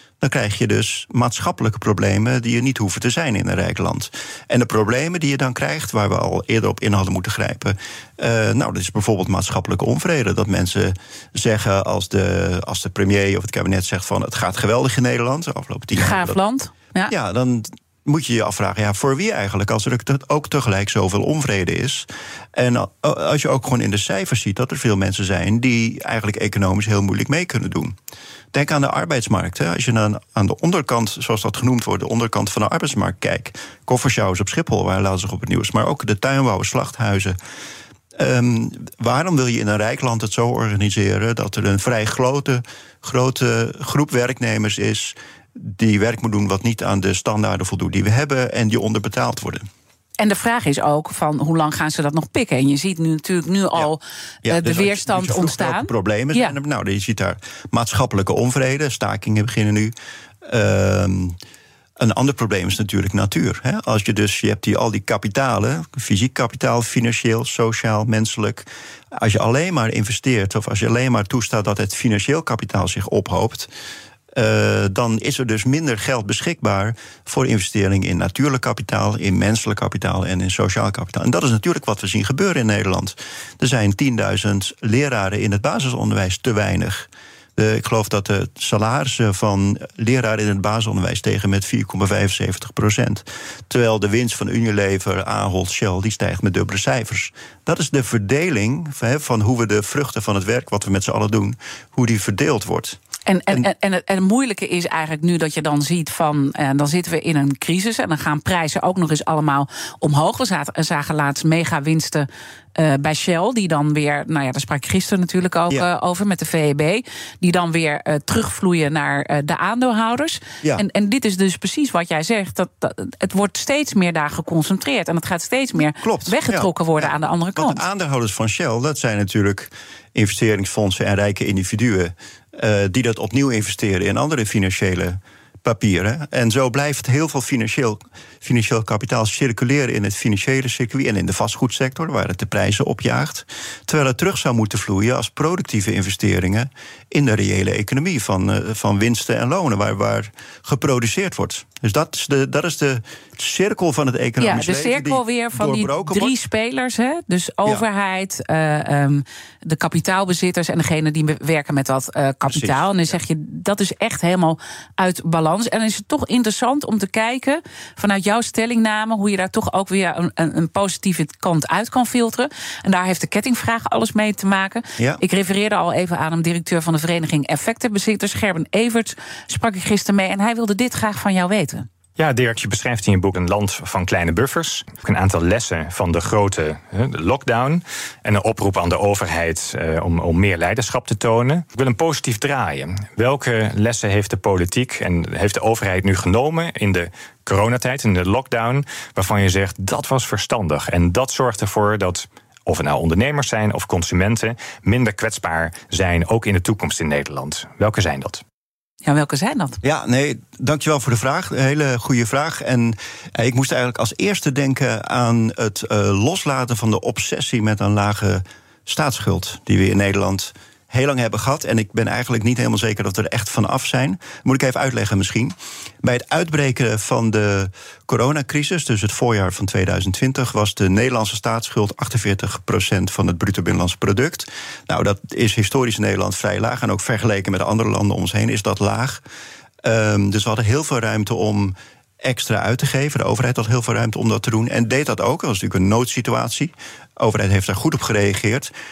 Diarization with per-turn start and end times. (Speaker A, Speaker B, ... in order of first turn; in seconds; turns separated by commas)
Speaker A: 0.2-16.4, Speaker B: 15.9-17.1, Speaker A: 17.1-28.0, Speaker A: 28.5-37.4, Speaker A: 38.1-49.7, Speaker B: 50.2-56.5, Speaker A: 54.4-61.4, Speaker A: 62.0-73.7, Speaker A: 74.3-103.0, Speaker B: 103.3-127.8, Speaker A: 126.0-156.3, Speaker B: 154.4-181.9, Speaker A: 162.5-162.9, Speaker C: 182.2-208.4, Speaker B: 209.0-209.8, Speaker A: 209.8-239.2, Speaker A: 239.8-248.7